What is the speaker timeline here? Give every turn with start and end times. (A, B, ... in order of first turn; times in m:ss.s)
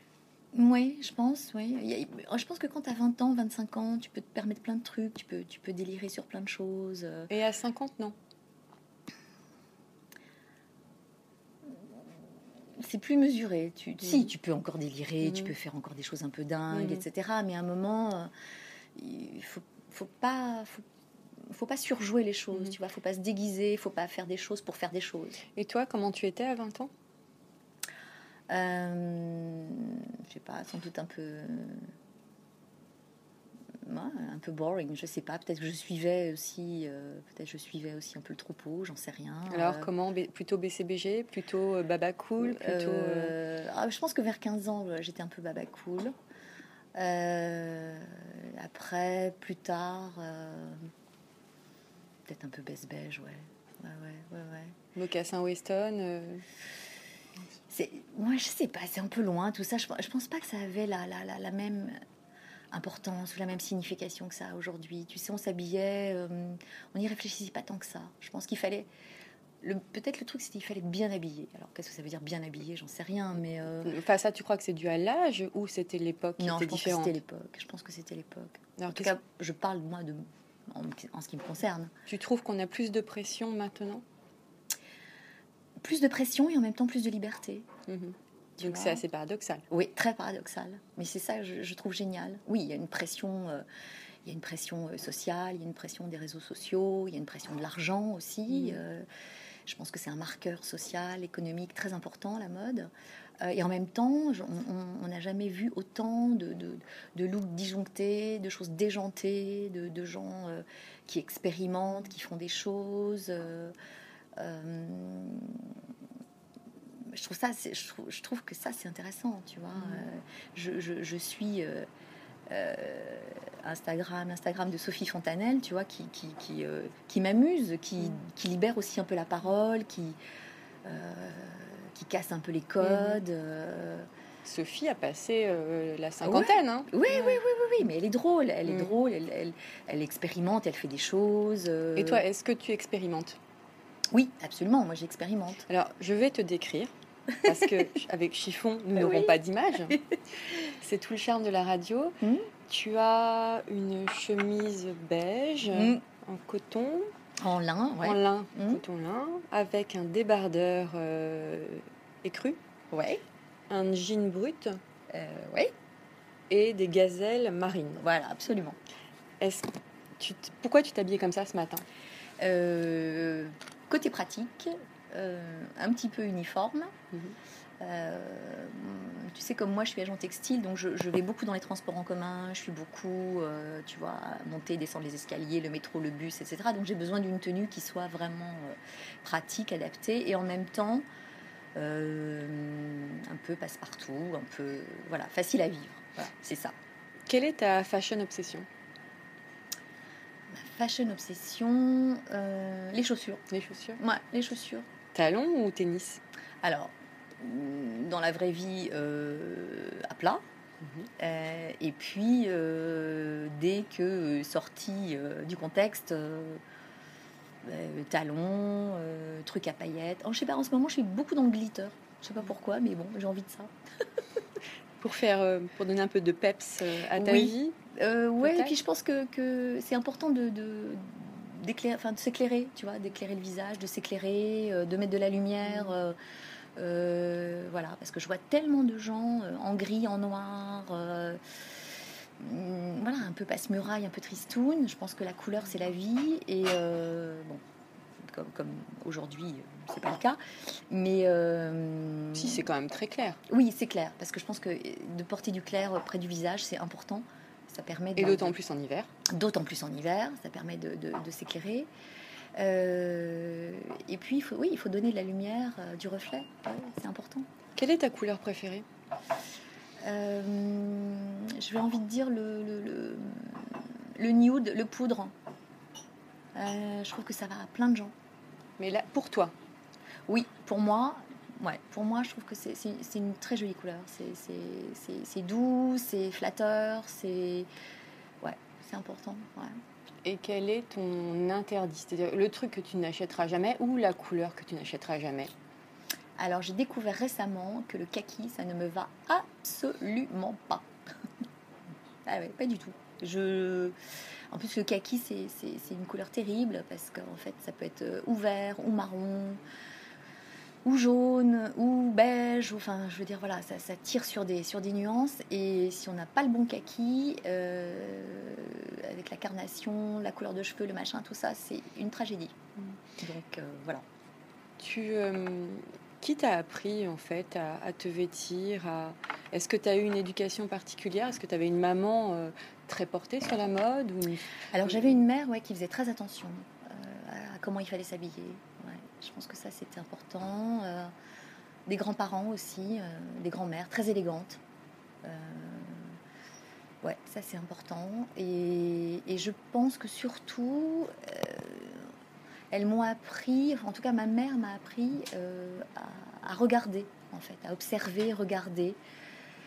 0:00.5-0:07.3 A
0:07.3-0:08.2 B
0:12.8-0:18.3 A
0:16.7-0:17.0 B
0:19.0-0:20.8 A
0:21.4-0:25.4 A
0:25.6-0:26.9 B
0:28.5-0:31.9 A
0:33.8-0:39.9 A
0:39.5-0:43.3 B
0:42.4-0:46.1 A
0:47.0-0:50.9 A
0:52.3-0:54.8 A
0:55.0-0:56.4 B
0:57.7-1:02.0 A
1:02.7-1:08.9 A
1:09.6-1:14.0 A
1:13.8-1:17.2 B
1:16.4-1:21.9 A
1:18.8-1:19.1 B
1:22.1-1:24.0 B
1:25.8-1:27.7 A
1:27.9-1:29.6 B
1:28.6-1:29.0 A
1:29.7-1:33.6 A
1:34.2-1:39.1 A
1:38.5-1:38.8 B
1:39.7-1:53.8 A
1:54.4-1:55.8 A
1:57.1-2:01.9 A
1:59.8-2:00.1 B
2:02.5-2:10.2 A
2:10.8-2:14.1 A
2:12.8-2:13.2 B
2:14.4-2:17.4 B
2:16.2-2:22.2 A
2:18.7-2:18.9 B
2:22.0-2:23.4 B
2:24.1-2:25.6 A
2:25.7-2:26.9 B
2:27.4-2:27.7 A
2:27.4-2:30.0 B
2:29.0-2:29.4 A
2:30.7-2:37.1 B
2:32.2-2:32.5 A
2:35.7-2:36.0 A
2:37.4-2:38.8 A
2:38.0-2:42.6 B
2:42.9-2:43.2 A
2:43.7-2:44.8 B
2:45.1-2:45.7 A
2:46.5-2:48.0 B
2:48.0-2:48.8 A
2:49.4-2:51.8 B
2:52.4-2:56.9 A
2:57.8-3:11.1 A
3:11.8-3:16.8 A
3:17.3-3:18.7 B
3:20.5-3:23.4 A
3:23.5-3:24.0 B
3:24.0-3:24.9 A
3:25.1-3:26.2 B
3:26.6-3:30.4 A
3:30.8-3:31.1 B
3:31.2-3:36.6 A
3:37.6-3:43.7 A
3:45.0-3:47.8 B
3:47.2-3:56.2 A
3:48.4-3:48.7 B
3:55.7-3:56.0 B
3:56.8-4:01.4 A
4:02.4-4:07.6 A
4:08.2-4:12.6 A
4:12.4-4:13.4 B
4:13.5-4:18.6 A
4:18.2-4:19.1 B
4:19.3-4:21.9 A
4:22.6-4:27.5 A
4:27.8-4:28.8 B
4:30.0-4:35.3 A
4:36.6-4:38.1 A
4:38.8-4:39.5 B
4:40.3-4:47.7 A
4:48.4-4:49.8 A
4:50.2-4:55.5 B
4:56.4-5:00.9 A
5:02.2-5:04.0 A
5:04.5-5:09.6 A
5:10.8-5:22.6 A
5:23.2-5:24.0 A
5:24.8-5:35.2 B
5:34.7-5:41.1 A
5:41.9-5:44.6 A
5:45.2-5:46.2 A
5:47.0-5:52.1 A
5:52.7-5:59.0 A